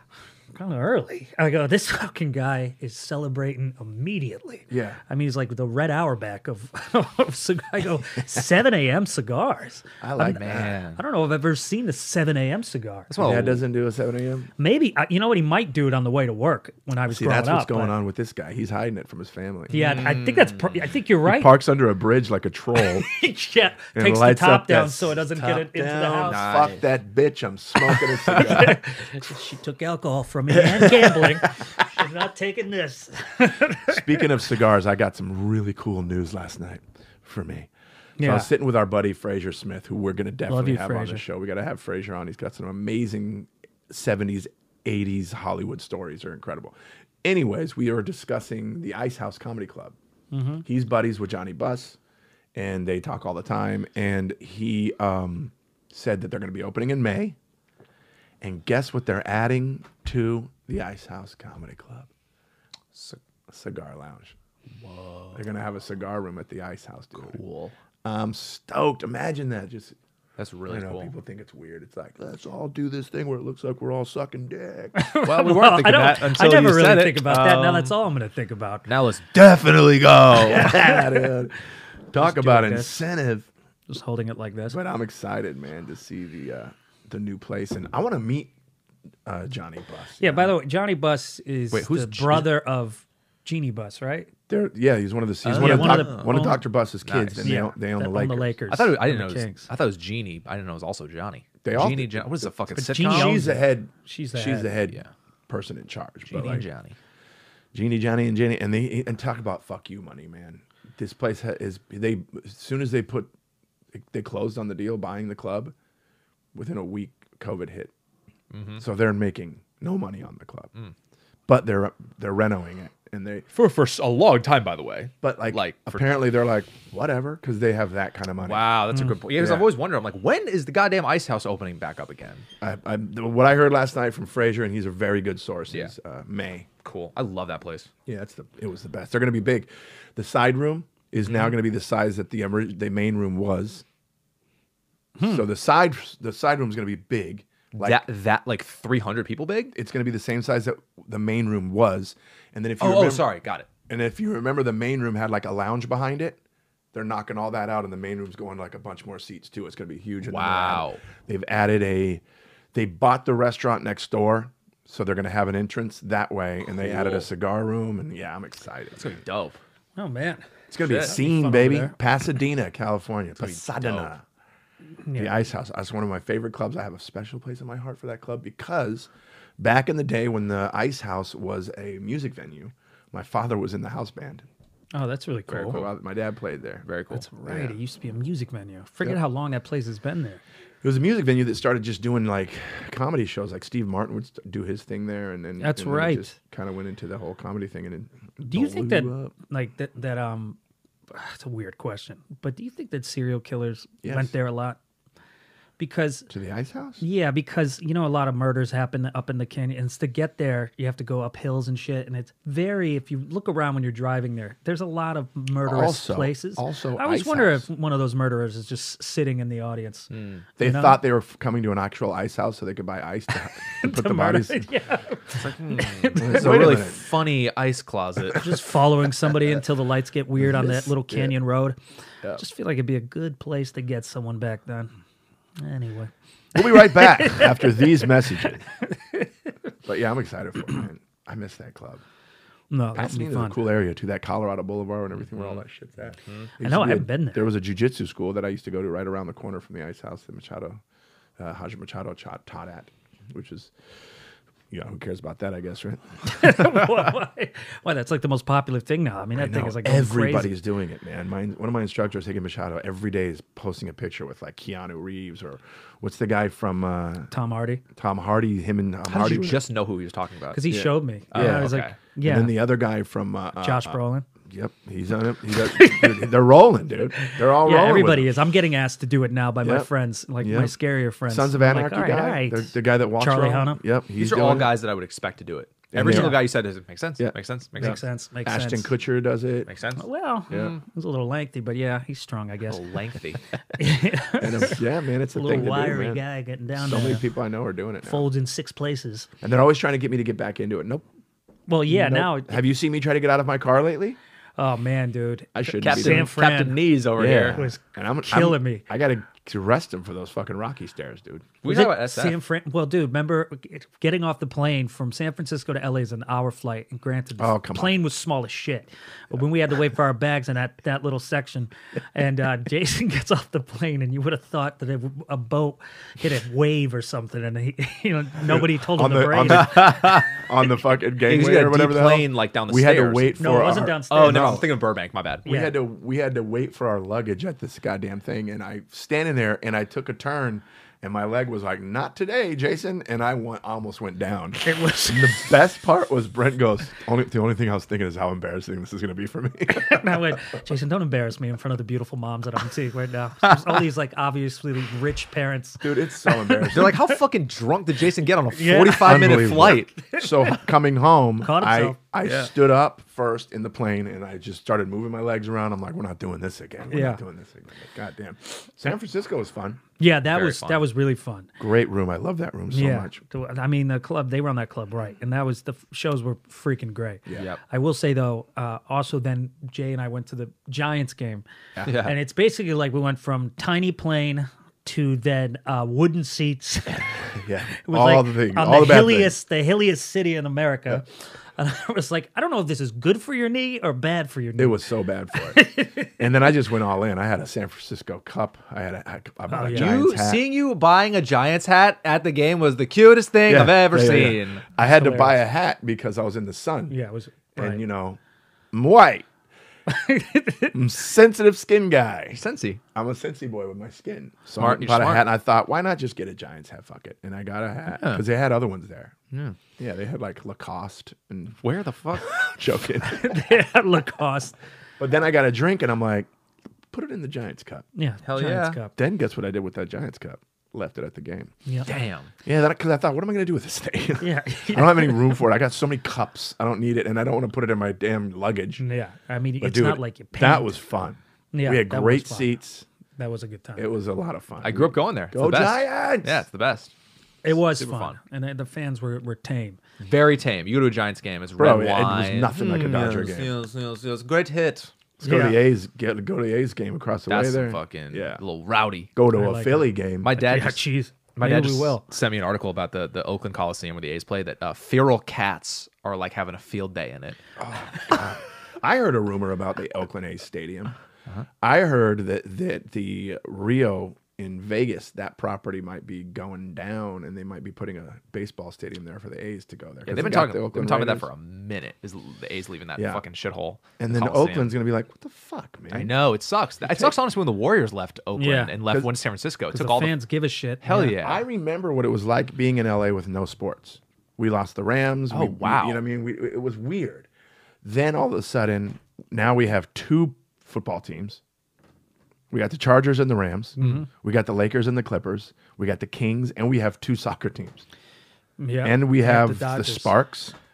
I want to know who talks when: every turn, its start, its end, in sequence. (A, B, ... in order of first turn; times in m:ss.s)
0:00.5-0:13.1 A
0:04.7-0:05.0 B
0:10.0-0:10.8 B
0:10.2-0:11.0 C
0:13.1-0:13.6 C
0:13.2-0:14.5 B
0:14.6-0:17.9 A
0:17.1-0:19.9 B
0:19.7-0:21.5 A
0:19.7-0:20.9 C
0:21.2-0:23.1 B
0:22.8-0:26.4 A
0:23.9-0:28.8 B
0:26.2-0:26.8 C
0:28.2-0:34.3 A
0:30.5-0:31.5 B
0:33.9-0:37.7 B
0:38.2-0:38.5 A
0:38.2-0:50.0 B
0:40.5-0:41.2 A
0:50.3-0:50.6 A
0:50.6-0:52.0 B
0:52.5-0:57.4 B
0:58.4-1:02.1 B
1:03.5-1:04.3 B
1:04.8-1:05.4 C
1:05.3-1:07.4 B
1:07.2-1:07.7 C
1:08.0-1:10.0 B
1:10.4-1:11.1 C
1:10.7-1:15.0 B
1:14.9-1:18.9 A
1:15.2-1:17.9 C
1:18.9-1:20.7 C
1:20.3-1:21.6 B
1:20.6-1:21.3 A
1:22.1-1:23.5 B
1:22.1-1:23.0 A
1:23.9-1:24.8 A
1:24.7-1:28.5 B
1:29.2-1:30.5 B
1:30.2-1:34.3 A
1:31.7-1:32.5 C
1:34.5-1:38.5 B
1:35.4-1:36.4 C
1:35.5-1:36.6 A
1:37.0-1:37.6 C
1:37.4-1:39.7 A
1:38.7-1:43.4 C
1:41.6-1:46.6 B
1:42.7-1:44.7 A
1:46.3-1:47.0 C
1:47.7-1:53.3 B
1:53.9-1:55.7 B
1:56.5-1:57.9 B
1:58.5-1:58.8 C
1:58.8-2:00.7 B
2:01.5-2:03.4 B
2:03.5-2:06.2 C
2:05.2-2:09.7 B
2:08.4-2:12.4 C
2:12.6-2:16.7 B
2:16.8-2:17.9 C
2:18.0-2:23.8 B
2:21.2-2:21.5 C
2:25.2-2:25.4 A
2:25.2-2:28.0 B
2:27.8-2:29.7 C
2:29.7-2:33.3 B
2:32.8-2:33.7 C
2:33.9-2:36.4 B
2:36.9-2:42.2 B
2:40.3-2:41.0 C
2:42.7-2:49.2 B
2:46.7-2:47.3 C
2:49.0-2:49.6 C
2:50.0-2:50.5 A
2:50.7-2:54.2 B
2:50.8-2:51.2 C
2:51.0-2:51.9 A
2:53.4-2:54.1 C
2:55.0-2:55.4 A
2:55.2-3:04.4 B
3:04.9-3:05.8 A
3:05.5-3:05.9 C
3:05.5-3:06.9 B
3:06.8-3:07.2 C
3:07.1-3:10.4 A
3:07.4-3:07.8 B
3:10.8-3:19.3 B
3:15.6-3:16.3 A
3:18.5-3:20.6 A
3:21.1-3:24.8 A
3:24.0-3:24.3 B
3:25.8-3:26.3 A
3:26.3-3:27.0 B
3:27.0-3:41.0 A
3:35.6-3:37.6 B
3:40.1-3:40.4 C
3:40.6-3:44.7 B
3:43.8-3:46.6 A
3:45.3-3:48.5 C
3:46.2-3:47.1 B
3:48.3-3:51.8 A
3:50.4-3:51.4 B
3:52.4-3:54.9 A
3:55.6-3:59.3 A
3:56.5-3:58.6 B
3:59.8-4:02.0 B
4:02.7-4:03.6 A
4:02.9-4:10.8 B
4:05.3-4:05.6 C
4:06.6-4:07.5 A
4:11.4-4:13.7 B
4:14.7-4:16.9 B
4:16.2-4:20.5 A
4:19.3-4:27.3 B
4:27.3-4:27.8 A
4:27.9-4:29.6 B
4:29.1-4:30.7 C
4:30.5-4:32.6 A
4:30.7-4:38.3 B
4:31.3-4:31.9 C
4:33.6-4:34.3 A
4:35.6-4:36.3 A
4:37.2-4:43.8 A
4:39.6-4:39.9 B
4:40.4-4:40.7 B
4:41.3-4:44.7 B
4:44.2-4:48.0 C
4:45.9-4:46.5 B
4:46.0-4:46.4 A
4:47.2-4:49.7 B
4:47.8-4:48.9 A
4:49.7-4:50.7 C
4:50.0-4:52.8 A
4:52.7-4:53.4 C
4:53.8-4:54.8 A
4:54.4-4:56.2 B
4:55.3-4:57.2 A
4:56.7-4:58.3 B
4:58.0-4:59.3 A
4:59.4-5:01.0 B
5:01.7-5:02.6 A
5:01.9-5:04.2 B
5:04.6-5:06.8 A
5:05.5-5:06.3 B
5:05.8-5:07.6 C
5:07.1-5:11.6 B
5:07.5-5:08.8 A
5:11.6-5:12.4 C
5:11.6-5:30.0 A
5:17.4-5:18.0 B
5:28.4-5:34.6 B
5:29.5-5:30.4 C
5:31.2-5:33.5 C
5:33.4-5:34.6 A
5:34.1-5:35.5 C
5:35.4-5:50.4 B
5:35.4-5:35.8 A
5:44.6-5:45.5 A
5:49.7-5:57.1 A
5:55.8-5:57.0 B
5:56.7-5:59.9 C
5:58.5-6:00.7 A
5:59.0-6:09.8 B
6:01.4-6:02.0 A
6:02.2-6:02.5 C
6:06.9-6:07.2 A
6:10.0-6:11.5 A
6:10.3-6:10.8 C
6:11.6-6:13.2 B
6:12.7-6:21.4 A
6:17.3-6:17.6 C
6:21.8-6:22.1 C
6:22.0-6:27.2 A
6:27.1-6:29.4 B
6:27.7-6:34.8 A
6:34.6-6:40.4 B
6:35.4-6:36.2 A
6:39.5-6:39.9 A
6:39.7-6:44.6 C
6:43.5-6:47.0 B
6:44.8-6:45.4 A
6:46.9-6:47.8 A
6:47.5-6:48.2 B
6:48.7-6:49.3 B
6:49.9-6:50.8 A
6:50.7-6:52.4 B
6:52.3-6:52.8 C
6:52.9-6:59.1 B
6:54.6-6:55.2 C
6:57.9-6:58.2 C
6:59.3-6:59.6 C
6:59.8-7:01.6 B
7:01.6-7:02.3 C
7:02.4-7:03.4 B
7:03.0-7:04.5 A
7:05.0-7:06.3 B
7:06.9-7:07.8 B
7:08.0-7:08.9 A
7:08.2-7:08.8 C
7:09.0-7:11.5 B
7:11.8-7:12.3 C
7:12.4-7:18.8 B
7:14.2-7:15.4 A
7:18.8-7:20.8 A
7:19.6-7:22.8 B
7:21.5-7:22.5 A
7:23.2-7:23.9 A
7:23.8-7:26.4 B
7:24.6-7:26.9 C
7:27.4-7:29.8 A
7:27.5-7:28.2 C
7:30.0-7:34.9 C
7:31.6-7:33.6 B
7:35.2-7:38.4 B
7:35.2-7:35.6 A
7:37.3-7:39.1 C
7:39.2-7:40.4 B
7:39.3-7:42.0 A
7:40.2-7:40.8 C
7:41.4-7:47.4 C
7:47.6-7:50.9 B
7:51.6-8:01.3 B
8:00.0-8:04.7 C
8:03.0-8:03.2 B
8:04.0-8:06.1 B
8:05.9-8:10.1 C
8:06.8-8:07.1 B
8:08.4-8:08.8 A
8:09.7-8:11.1 A
8:10.8-8:11.4 C
8:11.1-8:17.3 B
8:15.3-8:16.0 C
8:17.8-8:21.4 B
8:22.5-8:27.8 B
8:23.8-8:24.1 A
8:28.6-8:30.1 A
8:28.8-8:30.5 B